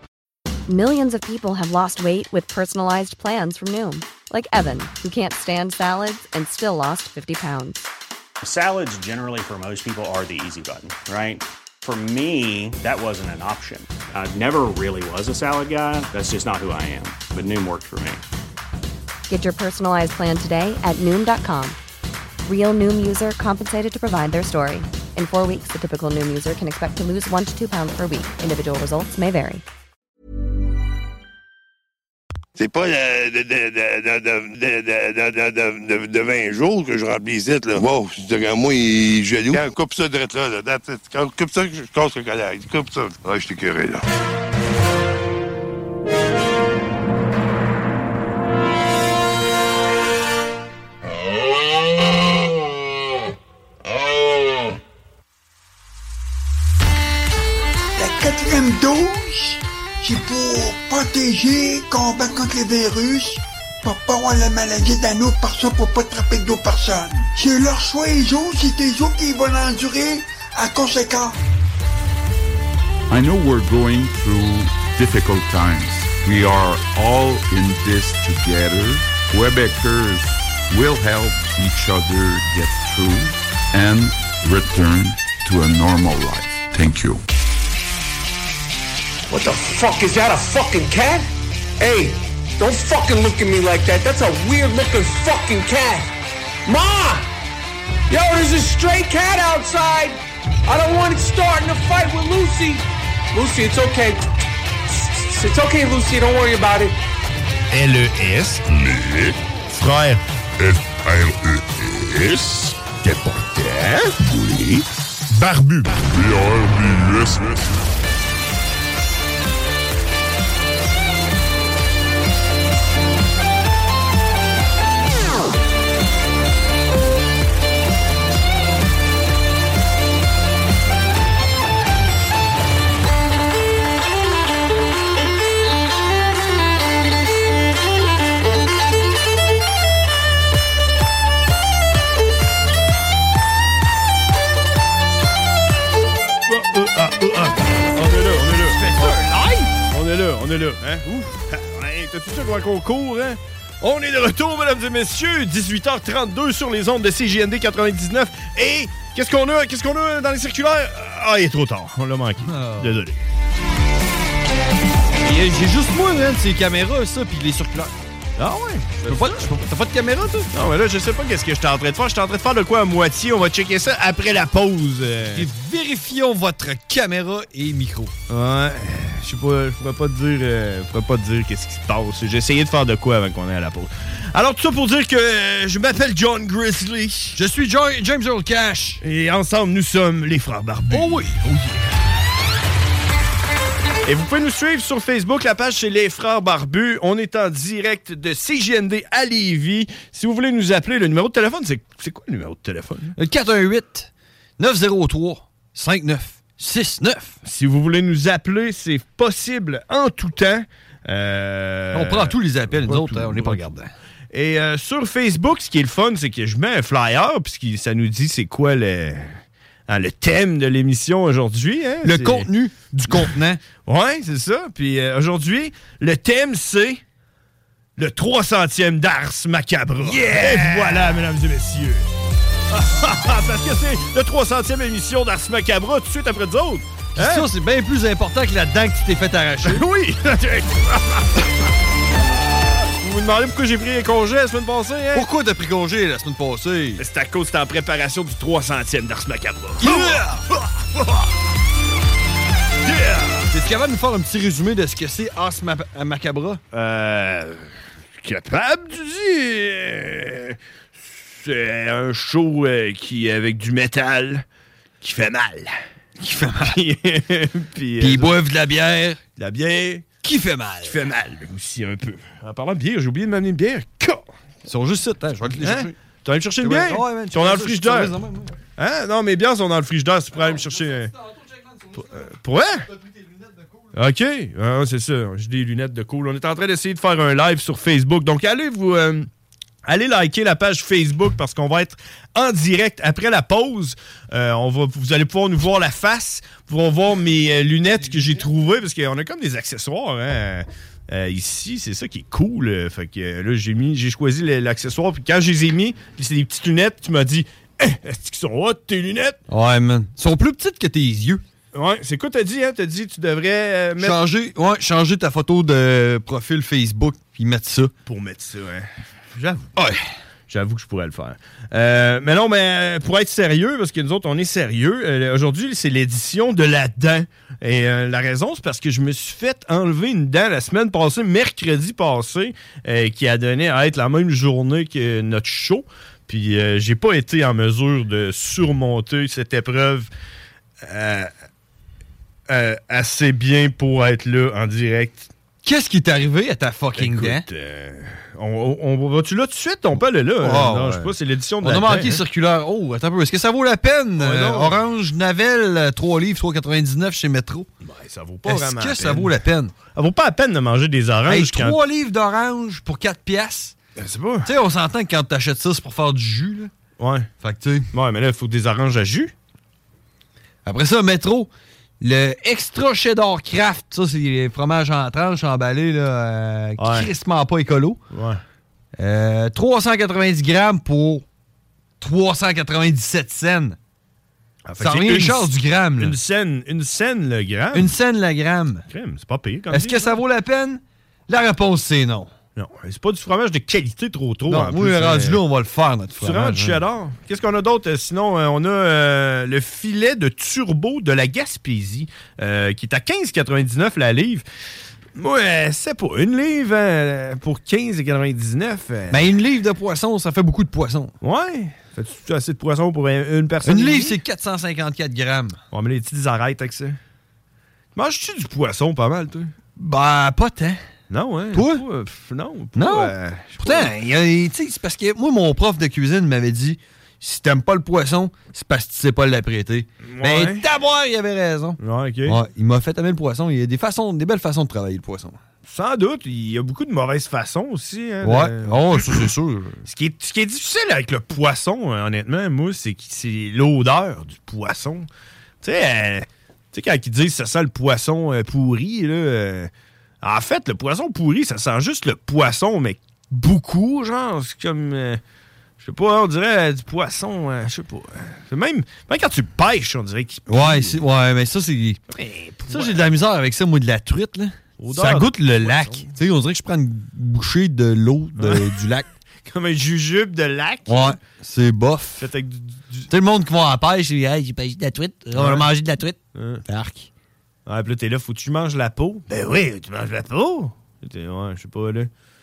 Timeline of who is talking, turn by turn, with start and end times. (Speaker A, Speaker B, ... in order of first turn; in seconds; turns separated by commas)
Speaker A: 0.7-7.9, Speaker B: 8.4-18.2, Speaker A: 19.3-21.8, Speaker A: 22.4-29.6, Speaker C: 32.6-44.0, Speaker D: 58.0-71.4, Speaker E: 73.1-87.2, Speaker F: 89.3-91.3, Speaker F: 91.8-96.1, Speaker F: 96.7-97.3, Speaker F: 98.1-104.2, Speaker F: 104.9-107.0, Speaker G: 107.7-108.6, Speaker H: 108.7-109.1, Speaker G: 109.7-110.2, Speaker H: 110.6-112.7, Speaker G: 112.9-116.0, Speaker H: 116.0-117.7, Speaker G: 146.5-163.2, Speaker I: 148.5-149.5, Speaker I: 162.4-162.9, Speaker I: 165.2-167.9, Speaker G: 168.4-169.5, Speaker I: 169.0-170.5, Speaker G: 170.5-175.5, Speaker I: 175.3-178.1, Speaker G: 178.3-187.4, Speaker I: 187.3-189.0, Speaker G: 189.0-191.9, Speaker I: 190.9-191.3, Speaker G: 194.1-203.2, Speaker I: 203.2-207.3, Speaker G: 207.4-213.7, Speaker I: 211.9-213.9, Speaker G: 214.3-222.5, Speaker I: 222.0-223.6, Speaker G: 223.8-227.0, Speaker G: 228.0-232.1, Speaker I: 230.0-231.2, Speaker G: 232.7-237.4, Speaker I: 237.2-239.8, Speaker G: 239.6-241.4, Speaker G: 243.0-245.3, Speaker I: 245.1-247.0, Speaker G: 247.0-250.2, Speaker I: 249.8-250.4, Speaker G: 250.9-251.2, Speaker G: 252.8-253.5, Speaker I: 253.5-256.6, Speaker G: 256.7-257.7, Speaker G: 258.2-264.4, Speaker G: 265.0-265.7, Speaker I: 266.2-266.8, Speaker G: 266.6-268.4, Speaker I: 268.0-269.2, Speaker G: 269.4-270.1, Speaker I: 270.2-271.0, Speaker G: 270.8-274.3, Speaker I: 274.6-275.9, Speaker G: 275.6-278.1, Speaker I: 276.6-278.6, Speaker G: 278.8-281.1, Speaker I: 281.8-282.0, Speaker G: 282.1-282.9, Speaker G: 283.9-289.3, Speaker G: 289.9-309.4, Speaker I: 309.5-311.4, Speaker G: 311.7-314.2, Speaker I: 314.0-317.9, Speaker G: 318.1-318.9, Speaker G: 319.4-319.7, Speaker I: 319.7-320.0, Speaker G: 320.5-340.1, Speaker G: 340.8-341.3, Speaker G: 342.5-345.3, Speaker I: 345.6-347.4, Speaker G: 347.0-352.2, Speaker I: 350.4-357.7, Speaker G: 354.2-354.8, Speaker G: 357.8-359.3, Speaker I: 358.4-359.7, Speaker G: 359.9-361.8, Speaker I: 361.3-363.8, Speaker G: 363.9-364.5, Speaker I: 364.4-366.7, Speaker G: 367.0-367.3, Speaker I: 367.4-367.9, Speaker G: 367.9-369.3, Speaker I: 370.6-378.0, Speaker G: 376.8-377.1, Speaker G: 378.1-378.4, Speaker I: 378.9-381.2, Speaker I: 382.0-383.8, Speaker G: 384.7-387.9, Speaker I: 384.8-386.2, Speaker I: 387.7-388.9, Speaker G: 388.9-390.2, Speaker I: 389.7-392.3, Speaker G: 392.6-395.4, Speaker I: 394.5-396.8, Speaker G: 396.2-404.4, Speaker G: 405.2-409.2, Speaker I: 409.1-411.1, Speaker G: 411.2-414.2, Speaker I: 413.6-415.6, Speaker G: 415.7-417.0, Speaker G: 417.9-419.5, Speaker I: 419.8-420.8, Speaker G: 421.1-424.1, Speaker I: 421.5-421.8, Speaker I: 422.8-435.4, Speaker G: 430.1-430.6, Speaker G: 431.8-432.4, Speaker G: 435.7-439.3, Speaker I: 438.2-439.8, Speaker G: 439.9-445.1, Speaker G: 445.6-449.7, Speaker G: 450.2-455.2, Speaker G: 455.8-461.0, Speaker I: 460.5-462.0, Speaker G: 462.1-463.1, Speaker I: 462.7-469.1, Speaker G: 464.8-466.1, Speaker G: 468.4-468.7, Speaker G: 469.5-471.2, Speaker I: 470.9-472.3, Speaker G: 472.2-473.1, Speaker I: 473.1-477.1, Speaker G: 475.4-475.7, Speaker G: 476.4-476.6, Speaker G: 477.7-482.1